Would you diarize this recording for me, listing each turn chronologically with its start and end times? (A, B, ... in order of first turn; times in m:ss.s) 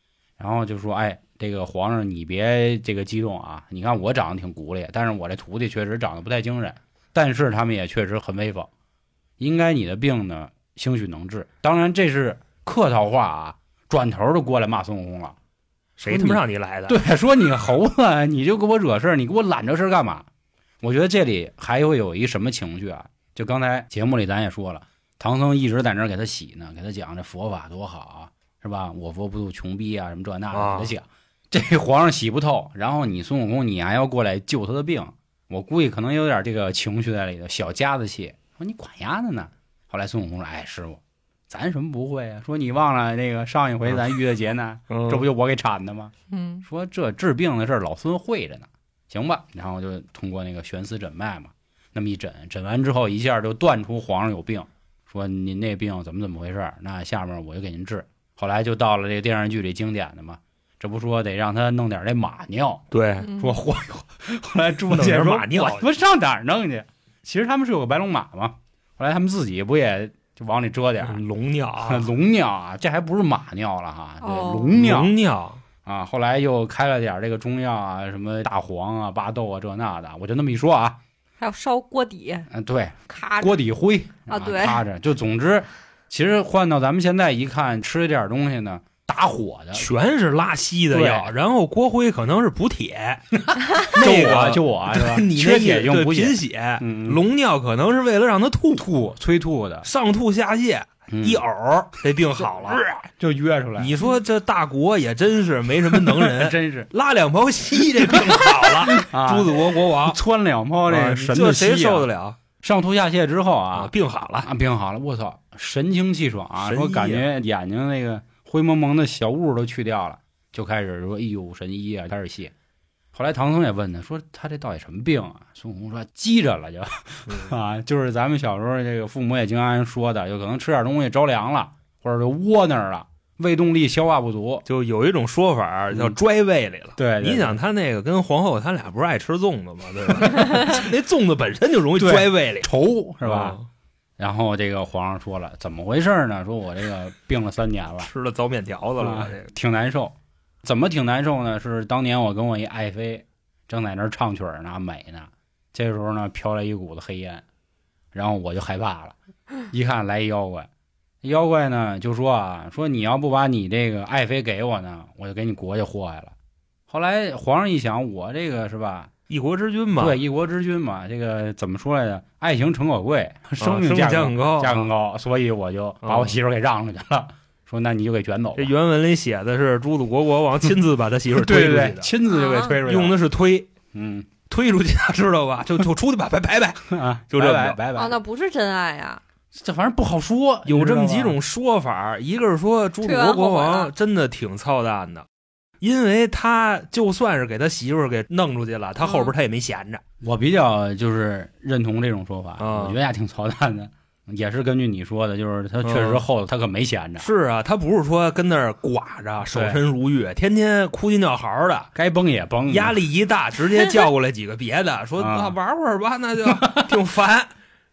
0:00.4-0:08.7 A
0:09.4-0:15.4 A
0:16.0-0:17.0 B
0:16.1-0:20.2 A
0:20.8-0:46.1 A
0:30.5-0:30.9 B
0:44.9-0:45.3 B
0:46.3-0:46.6 C
0:46.6-1:02.8 A
1:02.9-1:03.3 B
1:03.2-1:03.6 C
1:03.4-1:11.2 A
1:04.9-1:05.9 B
1:11.0-1:12.1 B
1:11.8-1:15.2 A
1:14.2-1:14.7 C
1:14.8-1:15.6 B
1:15.8-1:21.0 A
1:21.4-1:22.5 C
1:22.5-1:29.9 A
1:23.1-1:23.6 C
1:24.3-1:24.8 C
1:29.8-1:38.9 B
1:30.9-1:31.3 A
1:33.8-1:37.2 A
1:38.8-1:39.9 A
1:39.8-1:43.0 B
1:41.1-1:41.4 A
1:42.4-1:43.9 A
1:43.8-1:50.2 B
1:46.1-1:46.9 A
1:48.7-1:52.1 A
1:50.9-1:52.4 B
1:52.6-1:53.9 A
1:53.7-1:54.5 B
1:54.4-2:02.5 A
1:56.6-1:57.2 B
2:03.1-2:14.6 A
2:07.3-2:07.5 B
2:14.7-2:22.7 B
2:17.0-2:17.6 A
2:22.0-2:23.6 A
2:23.2-2:23.7 B
2:24.2-2:28.1 A
2:28.0-2:29.5 B
2:29.0-2:37.4 A
2:38.1-2:39.2 A
2:39.7-2:40.7 A
2:41.2-2:46.3 A
2:46.9-2:49.1 A
2:49.3-2:50.2 B
2:50.0-2:58.7 A
2:53.6-2:54.9 B
2:56.0-2:56.4 B
2:58.6-3:02.1 B
3:01.3-3:03.2 A
3:02.3-3:02.8 C
3:02.8-3:03.7 B
3:03.9-3:04.3 A
3:04.5-3:07.8 B
3:06.9-3:08.2 A
3:08.0-3:09.2 C
3:09.5-3:11.4 A
3:10.7-3:15.2 B
3:13.0-3:13.9 C
3:15.8-3:20.0 B
3:19.0-3:19.3 C
3:20.2-3:27.3 A
3:22.6-3:23.0 B
3:25.8-3:26.2 B
3:27.2-3:31.9 B
3:29.5-3:29.8 A
3:32.0-3:33.0 A
3:32.7-3:37.5 B
3:33.7-3:34.1 C
3:35.2-3:35.6 A
3:36.5-3:36.9 A